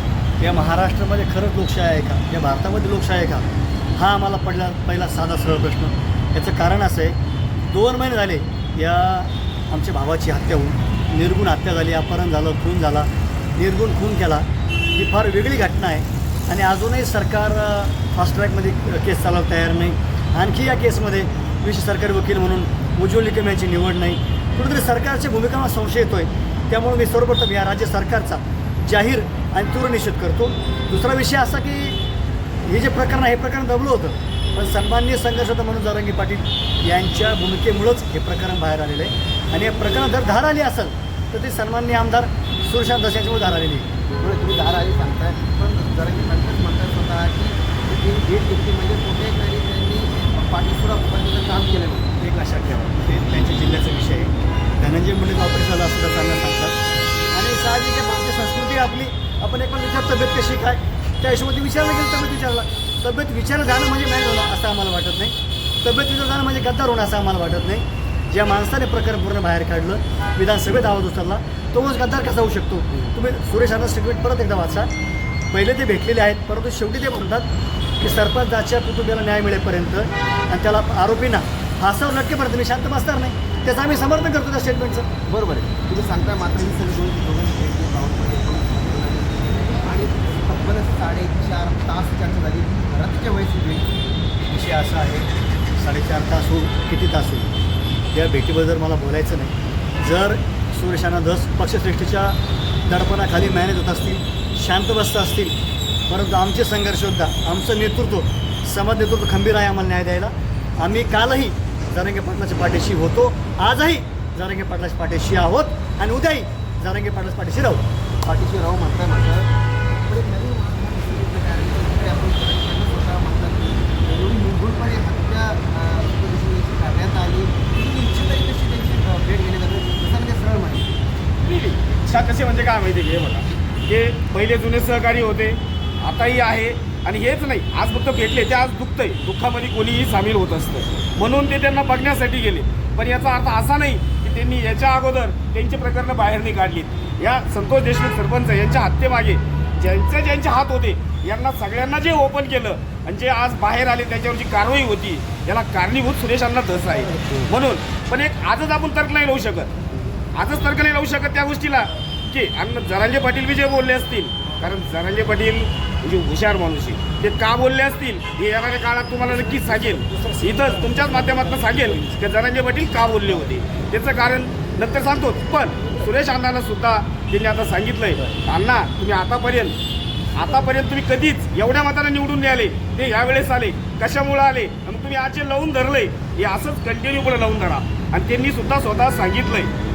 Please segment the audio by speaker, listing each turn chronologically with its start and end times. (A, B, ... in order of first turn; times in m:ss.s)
0:00.4-0:07.2 A
0:07.7-0:32.0 A
0:32.7-0:43.9 A
0:44.2-0:52.1 B
0:52.2-0:56.8 A
0:57.3-1:14.9 A
1:12.9-1:13.2 B
1:15.5-1:17.5 A
1:18.0-1:25.1 A
1:25.3-1:33.9 B
1:34.5-1:37.5 A
1:38.1-1:45.6 A
1:46.1-1:57.8 A
1:58.2-1:59.5 B
2:00.0-2:10.9 B
2:11.4-2:39.7 C
2:37.1-2:37.5 B
2:40.3-2:59.8 C
2:49.2-2:52.2 A
3:00.4-3:09.7 C